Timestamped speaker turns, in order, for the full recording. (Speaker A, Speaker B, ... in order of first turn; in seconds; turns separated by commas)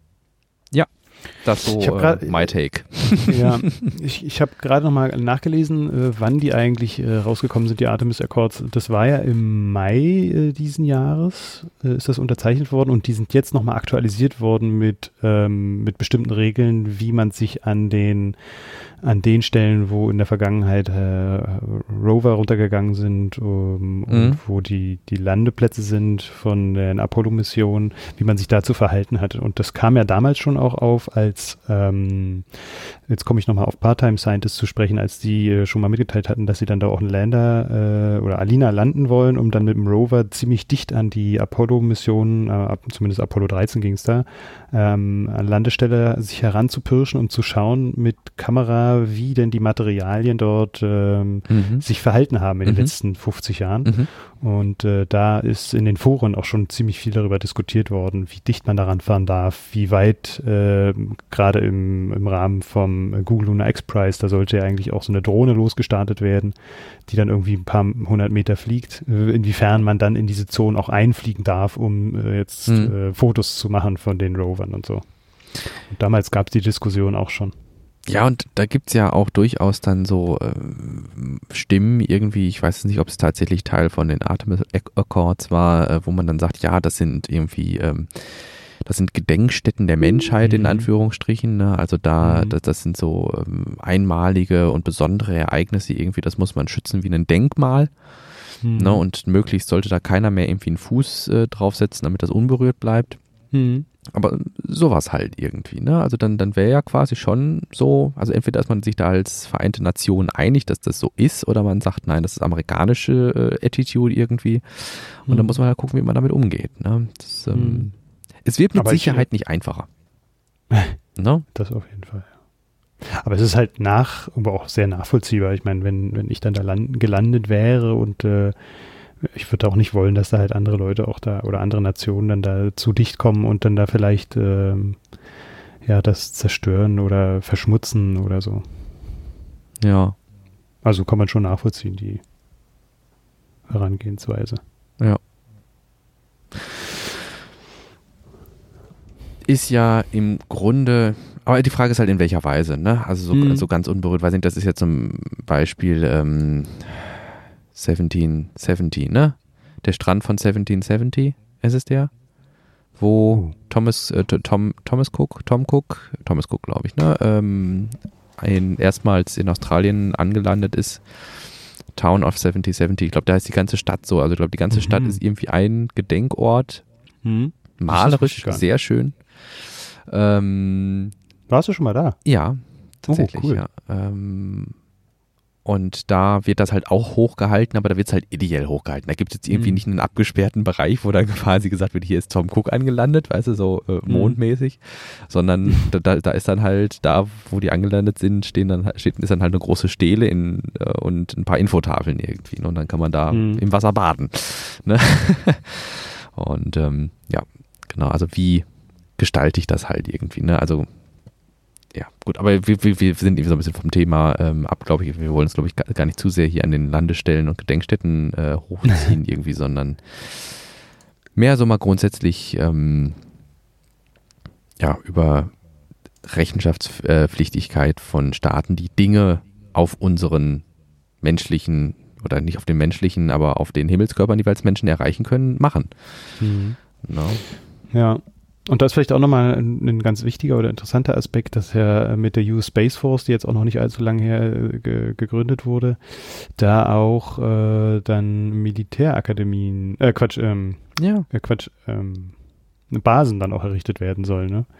Speaker A: 0.7-3.5, Speaker B: 1.8-75.1, Speaker A: 24.1-24.4, Speaker A: 51.5-51.8, Speaker A: 52.6-52.9, Speaker A: 53.8-54.1, Speaker A: 72.7-72.9, Speaker B: 75.6-77.5, Speaker A: 78.0-97.9, Speaker B: 90.4-90.9, Speaker B: 92.2-92.6, Speaker B: 98.6-99.0, Speaker A: 98.7-103.2, Speaker B: 103.5-103.9, Speaker A: 104.1-117.9, Speaker B: 115.3-115.6, Speaker B: 117.5-117.9, Speaker A: 118.4-119.9, Speaker B: 118.7-119.2, Speaker B: 120.7-122.3, Speaker A: 121.2-121.5, Speaker B: 123.0-128.6, Speaker B: 129.2-135.1, Speaker B: 135.8-138.9, Speaker A: 139.8-140.1, Speaker B: 140.8-142.2, Speaker B: 143.7-144.6, Speaker A: 149.4-162.1, Speaker B: 153.3-153.7, Speaker A: 163.0-176.8, Speaker B: 174.7-175.2, Speaker B: 177.2-178.6, Speaker A: 177.8-181.1, Speaker B: 181.5-182.2, Speaker A: 182.2-184.8, Speaker B: 183.1-183.6, Speaker A: 185.6-210.9, Speaker B: 189.5-189.8, Speaker B: 194.1-194.4, Speaker B: 203.3-203.6, Speaker A: 211.9-220.7, Speaker A: 221.3-223.2, Speaker A: 224.8-225.6, Speaker A: 226.2-230.6, Speaker A: 231.2-235.9, Speaker B: 236.4-236.8, Speaker A: 237.0-237.4, Speaker B: 237.9-252.3, Speaker A: 251.0-251.3, Speaker B: 252.9-254.7